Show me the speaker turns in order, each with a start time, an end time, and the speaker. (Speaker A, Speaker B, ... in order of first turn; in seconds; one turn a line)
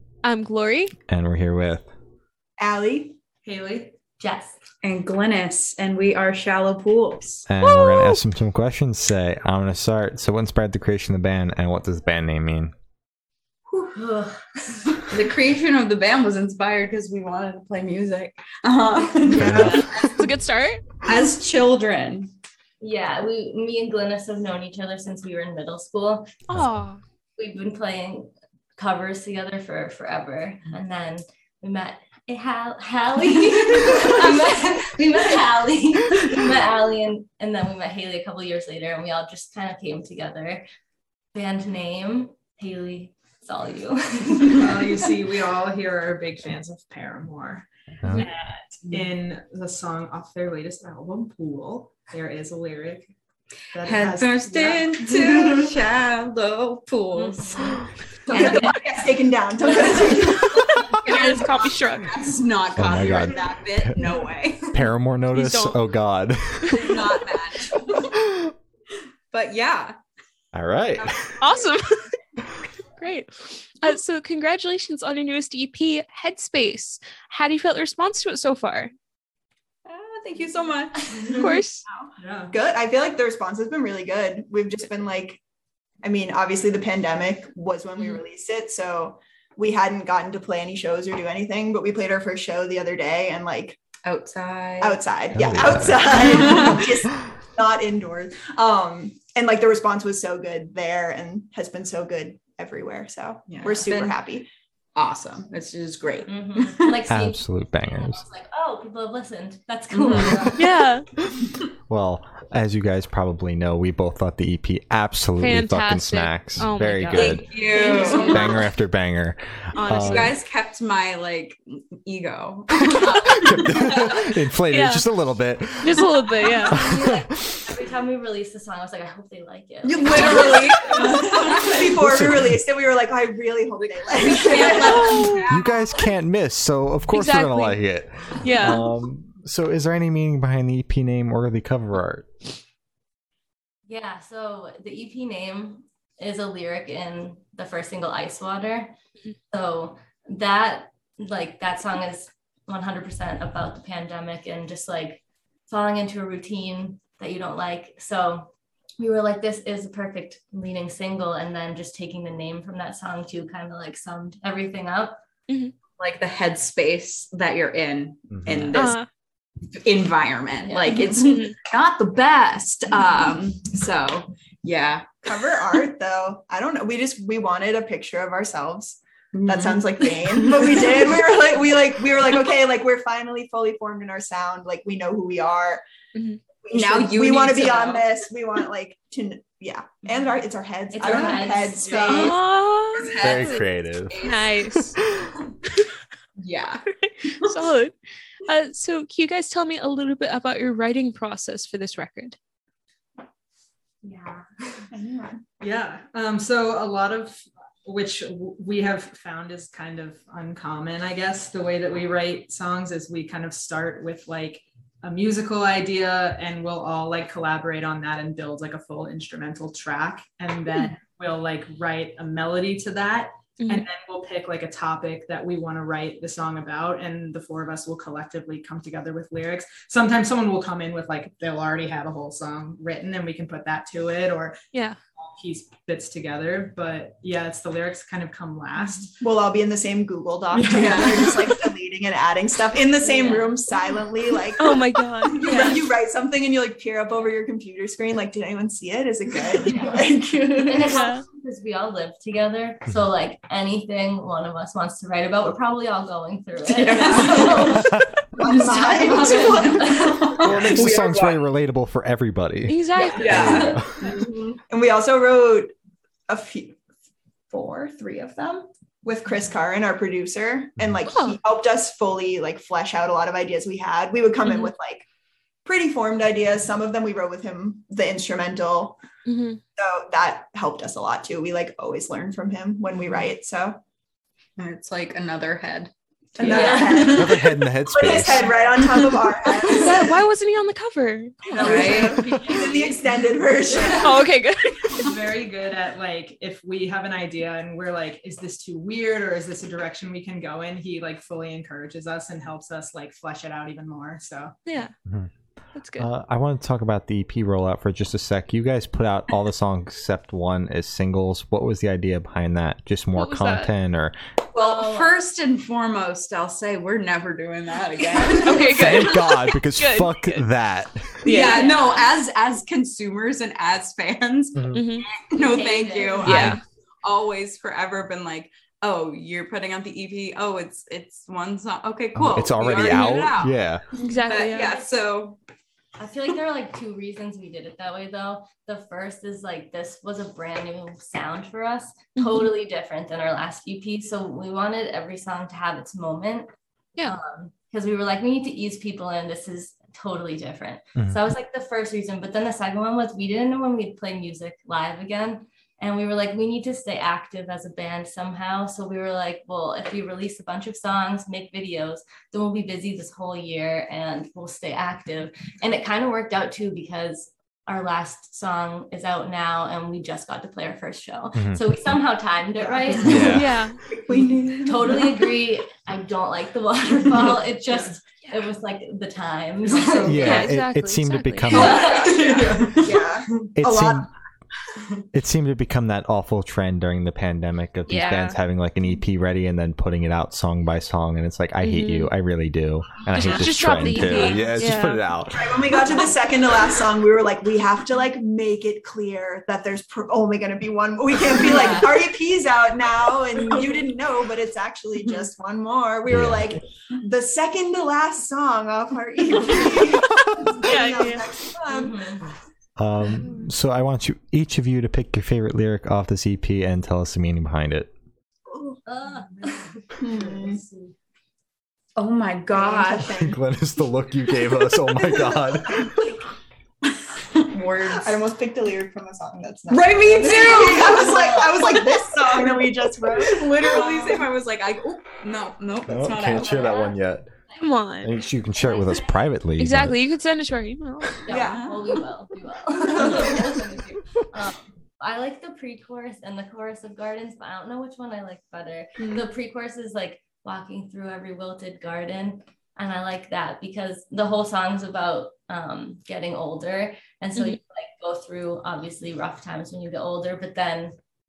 Speaker A: 0.2-0.9
Speaker B: 1.1-1.9
Speaker C: 2.6-3.2
Speaker D: 3.4-4.0
Speaker E: 4.2-4.6
Speaker F: 4.8-7.5
Speaker B: 7.5-12.7
Speaker A: 7.7-8.2
Speaker E: 13.7-15.1
Speaker F: 15.1-20.2
Speaker B: 19.3-19.8
Speaker E: 19.4-19.9
Speaker A: 19.5-20.9
Speaker F: 21.0-22.3
Speaker E: 22.8-26.4
Speaker A: 26.5-27.0
Speaker B: 26.5-26.9
Speaker E: 27.4-40.7
Speaker E: 41.3-45.1
Speaker D: 44.6-53.1
Speaker B: 48.0-48.3
Speaker D: 53.7-55.7
Speaker F: 53.8-58.8
Speaker E: 57.1-58.8
Speaker C: 58.3-61.4
Speaker F: 59.8-64.8
Speaker A: 60.5-62.1
Speaker B: 62.8-64.1
Speaker B: 64.7-67.2
Speaker A: 65.3-65.8
Speaker A: 66.6-67.0
Speaker F: 66.8-68.1
Speaker B: 68.2-68.5
Speaker F: 69.3-70.0
Speaker B: 70.5-71.4
Speaker A: 71.4-72.1
Speaker A: 73.0-78.9
Speaker F: 79.9-82.1
Speaker A: 81.2-81.8
Speaker D: 82.2-82.5
Speaker C: 82.5-85.4
Speaker C: 86.0-93.8
Speaker F: 94.0-95.0
Speaker C: 94.8-104.5
Speaker B: 95.3-96.9
Speaker F: 96.2-96.8
Speaker F: 103.5-104.2
Speaker F: 105.0-107.0
Speaker E: 106.3-110.6
Speaker B: 107.1-108.2
Speaker F: 109.9-110.5
Speaker B: 110.4-110.9
Speaker A: 110.6-111.1
Speaker B: 111.9-117.5
Speaker A: 115.4-118.6
Speaker F: 117.1-118.6
Speaker E: 117.5-118.5
Speaker D: 117.7-118.4
Speaker B: 118.2-120.4
Speaker F: 119.7-124.3
Speaker A: 120.0-120.2
Speaker B: 122.9-127.6
Speaker A: 124.7-125.1
Speaker A: 125.8-126.8
Speaker E: 126.7-131.2
Speaker F: 129.8-131.9
Speaker C: 129.9-135.3
Speaker B: 131.9-132.6
Speaker F: 134.2-136.1
Speaker A: 134.8-135.4
Speaker B: 135.5-142.3
Speaker A: 137.1-137.8
Speaker A: 138.4-138.9
Speaker E: 143.9-148.9
Speaker E: 149.5-165.2
Speaker A: 165.5-165.7
Speaker F: 166.0-169.1
Speaker B: 168.3-168.9
Speaker A: 168.7-169.1
Speaker F: 169.7-175.2
Speaker E: 170.6-171.1
Speaker A: 171.1-171.6
Speaker C: 175.2-185.8
Speaker F: 179.3-180.7
Speaker A: 186.2-186.4
Speaker C: 186.7-192.3
Speaker F: 186.7-188.1
Speaker E: 190.9-192.4
Speaker D: 191.1-192.3
Speaker A: 192.1-193.6
Speaker F: 192.9-194.6
Speaker B: 193.2-195.3
Speaker A: 194.2-195.0
Speaker F: 196.4-197.6
Speaker A: 196.9-202.4
Speaker E: 204.0-204.9
Speaker C: 204.9-205.4
Speaker D: 205.6-234.6
Speaker A: 223.6-223.9
Speaker A: 234.7-235.0
Speaker D: 235.2-239.2
Speaker C: 239.2-251.0
Speaker D: 240.5-241.5
Speaker F: 240.9-241.2
Speaker E: 243.0-243.6
Speaker A: 244.6-245.8
Speaker E: 249.6-250.0
Speaker E: 250.6-260.4
Speaker A: 250.9-251.2
Speaker F: 256.6-257.8
Speaker C: 258.4-260.6
Speaker F: 258.9-261.4
Speaker B: 260.4-264.0
Speaker A: 262.7-263.7
Speaker E: 263.0-264.1
Speaker F: 263.1-264.6
Speaker C: 264.7-265.7
Speaker C: 266.3-266.8
Speaker C: 267.5-275.1
Speaker A: 271.1-271.4
Speaker C: 275.6-279.0
Speaker A: 279.3-279.6
Speaker C: 279.8-283.8
Speaker F: 284.6-287.5
Speaker C: 286.4-290.2
Speaker E: 286.4-287.2
Speaker B: 287.0-288.5
Speaker F: 288.9-289.8
Speaker A: 289.7-292.3
Speaker C: 291.6-294.3
Speaker F: 291.6-292.4
Speaker D: 292.5-292.9
Speaker A: 293.9-295.1
Speaker D: 294.9-304.6
Speaker A: 304.7-304.9
Speaker A: 305.8-306.1
Speaker B: 306.0-314.2
Speaker A: 313.1-313.7
Speaker F: 314.5-319.4
Speaker E: 314.6-315.1
Speaker E: 318.2-318.5
Speaker A: 318.4-320.4
Speaker B: 318.6-321.3
Speaker A: 321.2-321.8
Speaker F: 321.2-335.4
Speaker E: 321.5-321.8
Speaker B: 324.6-324.8
Speaker A: 324.7-325.1
Speaker E: 325.3-326.6
Speaker A: 326.2-326.6
Speaker B: 332.1-333.9
Speaker A: 334.0-334.7
Speaker E: 334.5-334.9
Speaker E: 336.0-346.5
Speaker E: 347.1-373.6
Speaker B: 371.4-371.8
Speaker C: 372.6-375.3
Speaker B: 373.0-373.6
Speaker A: 373.2-373.8
Speaker E: 374.6-380.5
Speaker D: 379.7-380.4
Speaker B: 380.0-381.9
Speaker A: 380.1-382.0
Speaker E: 381.5-382.6
Speaker D: 381.5-383.4
Speaker F: 381.8-383.1
Speaker C: 382.8-384.1
Speaker B: 383.6-384.1
Speaker B: 385.1-395.8
Speaker A: 387.9-388.4
Speaker A: 391.6-392.1
Speaker A: 393.1-395.0
Speaker C: 395.3-412.3
Speaker E: 401.4-401.9
Speaker B: 406.1-406.6
Speaker A: 410.6-411.3
Speaker E: 411.7-412.3
Speaker B: 412.8-417.9
Speaker A: 413.1-413.5
Speaker E: 418.9-419.8
Speaker D: 419.0-420.9
Speaker C: 420.0-420.6
Speaker F: 422.0-423.2
Speaker C: 422.5-423.4
Speaker B: 423.2-426.2
Speaker C: 425.0-426.2
Speaker F: 426.8-428.2
Speaker C: 427.9-434.2
Speaker F: 429.7-431.5
Speaker E: 430.2-431.7
Speaker F: 432.3-432.6
Speaker F: 433.2-436.9
Speaker B: 435.9-437.3
Speaker E: 436.3-437.6
Speaker A: 437.6-438.1
Speaker B: 438.0-440.0
Speaker E: 438.5-439.2
Speaker A: 439.6-441.2
Speaker E: 441.2-461.0
Speaker F: 441.3-442.0
Speaker C: 442.8-443.5